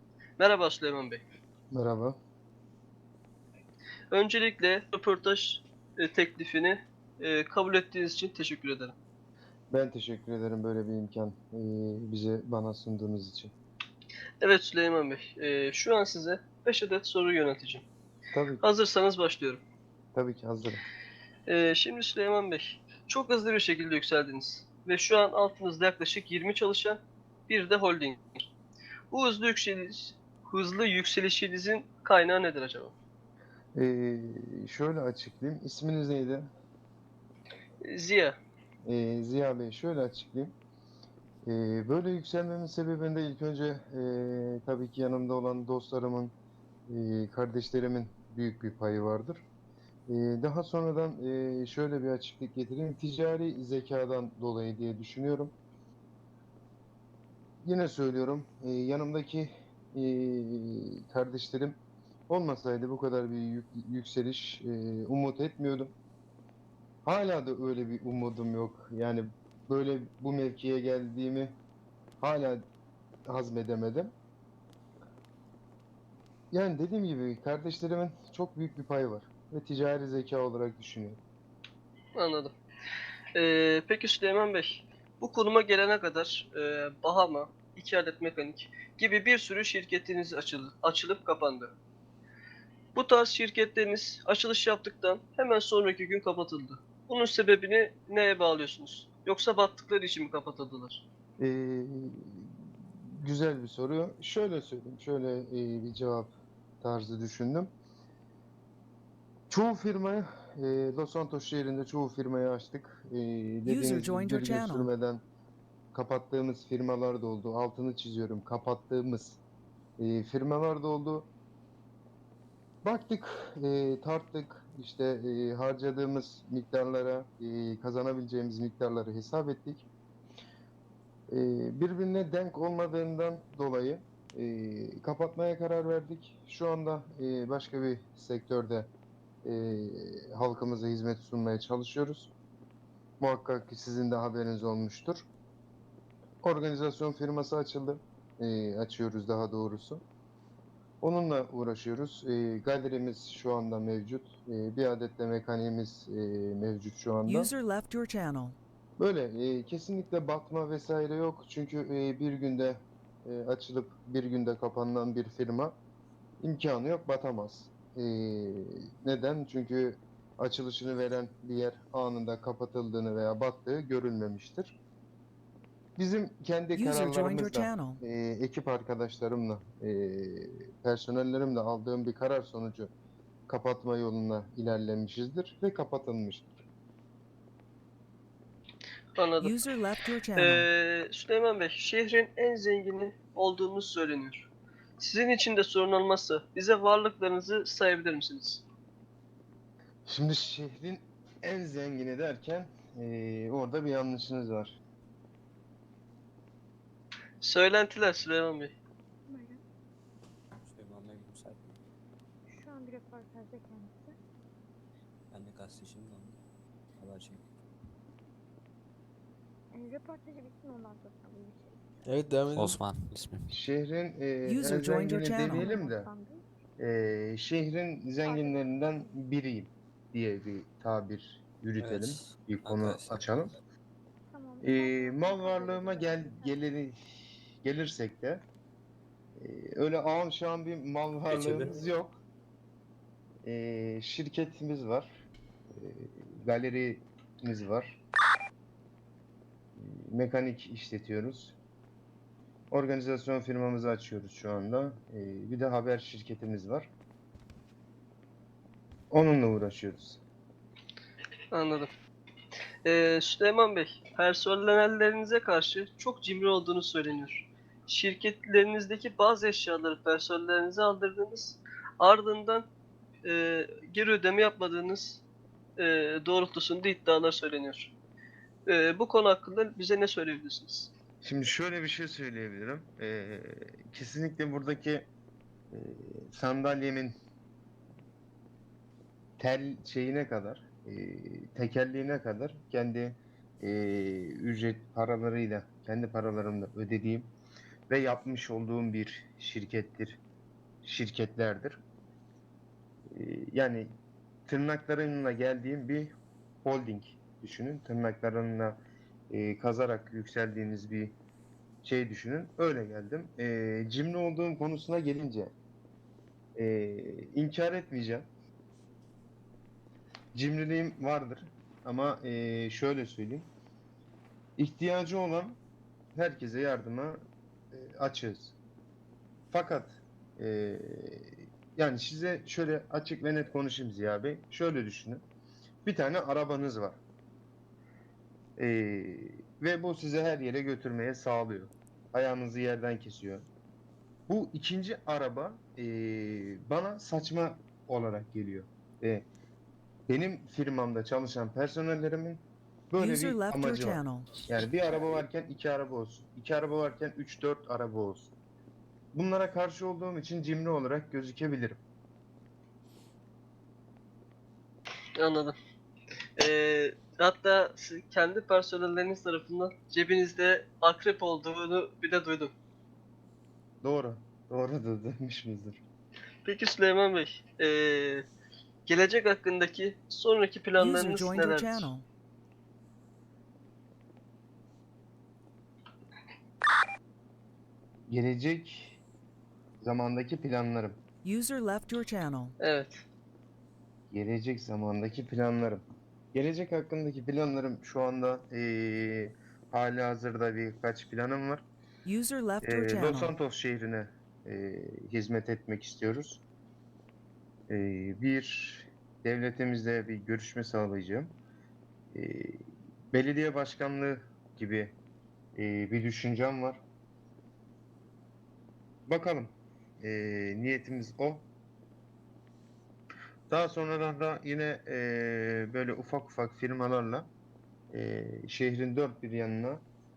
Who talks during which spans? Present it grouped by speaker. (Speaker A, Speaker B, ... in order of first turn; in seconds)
Speaker A: 0.4-1.2, 4.1-8.9, 14.4-17.9, 18.6-19.6, 21.5-28.2, 29.1-32.9, 37.9-38.4, 82.2-82.5, 83.3-91.7, 93.0-101.0, 189.2-189.6, 190.4-198.7, 207.4-208.7, 261.5-261.9, 262.9-272.7, 273.2-275.2, 275.8-277.9, 278.7-280.9, 365.2-365.6, 366.4-372.5, 376.4-378.3, 378.9-381.9, 392.6-393.0
Speaker B: 1.7-2.2, 9.7-13.5, 18.3-18.6, 20.1-20.8, 33.8-36.5, 38.9-40.5, 41.5-46.4, 46.9-49.4, 50.1-55.5, 57.6-61.8, 62.3-65.9, 67.0-71.6, 72.2-72.6, 73.3-74.1, 76.5-81.2, 101.4-102.5, 103.1-106.3, 106.8-107.7, 109.5-115.2, 115.9-119.4, 120.0-121.3, 122.8-129.9, 131.3-138.9, 139.4-142.3, 143.2-145.3, 146.4-150.0, 151.0-157.5, 159.0-165.8, 166.4-174.8, 176.0-182.9, 183.5-186.6, 200.1-204.8, 223.5-226.1, 226.8-233.5, 234.6-238.4, 239.4-242.2, 243.4-245.1, 245.7-248.0, 249.8-251.6, 252.7-256.9, 259.1-260.2, 281.2-285.1, 285.7-287.1, 289.4-297.3, 297.9-300.2, 300.8-301.8, 303.1-303.9, 304.5-311.2, 311.8-315.5, 316.6-318.3, 320.3-323.5, 324.6-325.6, 326.1-327.2, 327.7-328.6, 329.5-335.2, 335.8-337.0, 338.6-343.5, 344.3-349.3, 350.1-358.3, 359.1-361.8, 373.8-375.8, 388.1-389.0, 389.8-391.0, 394.1-401.6, 402.6-406.4, 407.7-411.4, 412.1-415.0, 415.6-416.8, 419.1-421.5, 423.5-427.3, 427.9-429.8
Speaker C: 113.7-114.9, 157.3-158.6, 176.7-178.0, 189.4-190.7, 224.4-225.7, 353.0-354.4, 380.8-382.1, 391.2-392.6, 402.1-403.3
Speaker D: 209.3-209.6, 212.5-214.2, 219.7-222.2, 225.4-226.4, 228.3-229.1, 234.3-236.6
Speaker E: 210.6-211.8, 215.3-216.4, 217.0-217.5, 222.0-223.5, 231.8-233.5, 241.3-241.8